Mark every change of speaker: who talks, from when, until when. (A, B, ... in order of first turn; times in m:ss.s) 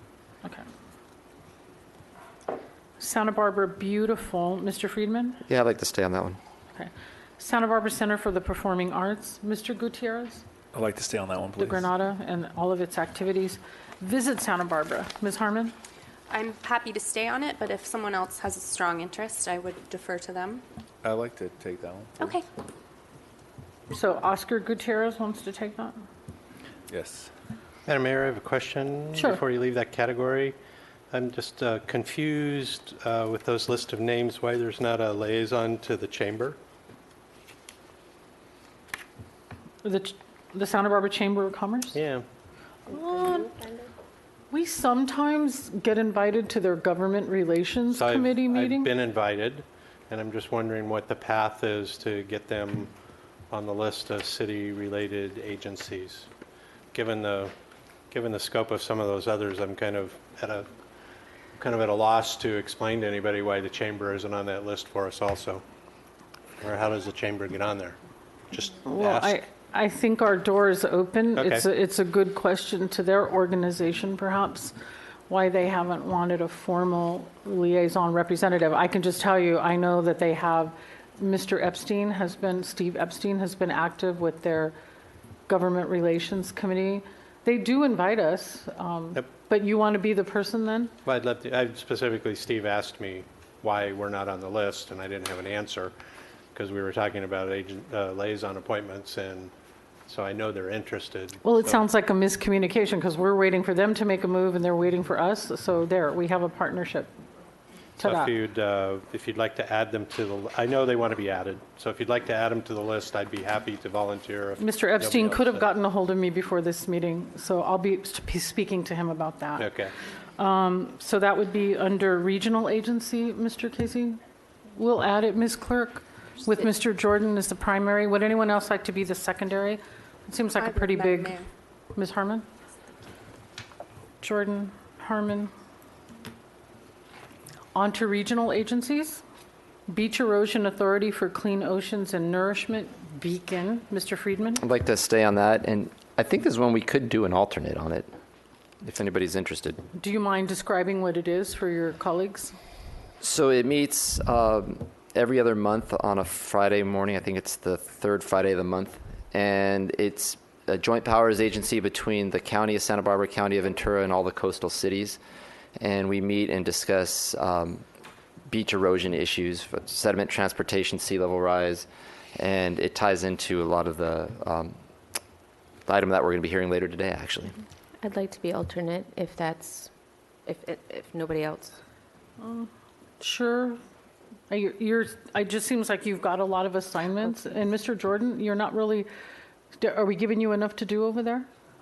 0:03.0-0:05.4 A
0:05.5-0:06.4 B
0:06.7-0:10.4 A
0:10.7-0:11.9 C
0:11.6-0:15.7 A
0:16.3-0:20.6 D
0:21.0-0:22.4 C
0:23.9-0:25.9 A
0:26.9-0:27.3 C
0:27.9-0:30.6 E
0:29.1-0:29.4 A
0:31.1-0:36.6 E
0:39.8-0:42.0 A
0:41.9-0:42.2 E
0:42.9-0:43.8 A
0:44.5-0:48.9 A
0:47.9-0:52.9 E
0:53.5-0:56.3 E
0:56.9-0:57.5 E
0:58.1-1:00.7 E
1:01.6-1:05.6 E
1:06.6-1:08.0 E
1:08.5-1:09.4 E
1:08.8-1:14.7 A
1:11.4-1:11.7 E
1:15.3-1:24.7 A
1:25.5-1:30.9 A
1:31.0-1:35.9 E
1:36.5-1:39.5 E
1:40.1-1:41.8 E
1:41.4-1:47.1 A
1:48.0-1:48.3 A
1:48.0-1:55.7 E
1:54.6-1:59.7 A
1:59.6-1:59.9 E
2:00.4-2:04.2 A
2:04.8-2:11.4 A
2:10.6-2:11.5 D
2:11.9-2:12.4 A
2:14.2-2:15.5 A
2:17.7-2:19.2 A
2:19.9-2:24.6 A
2:24.6-2:28.1 B
2:28.8-2:29.8 B
2:30.0-2:32.6 A
2:33.2-2:45.2 B
2:45.8-2:47.8 B
2:48.5-2:54.8 B
2:55.9-2:57.6 B
2:58.0-2:59.9 F
3:00.5-3:01.8 F
3:02.4-3:03.8 A
3:04.5-3:09.1 A
3:09.8-3:11.5 A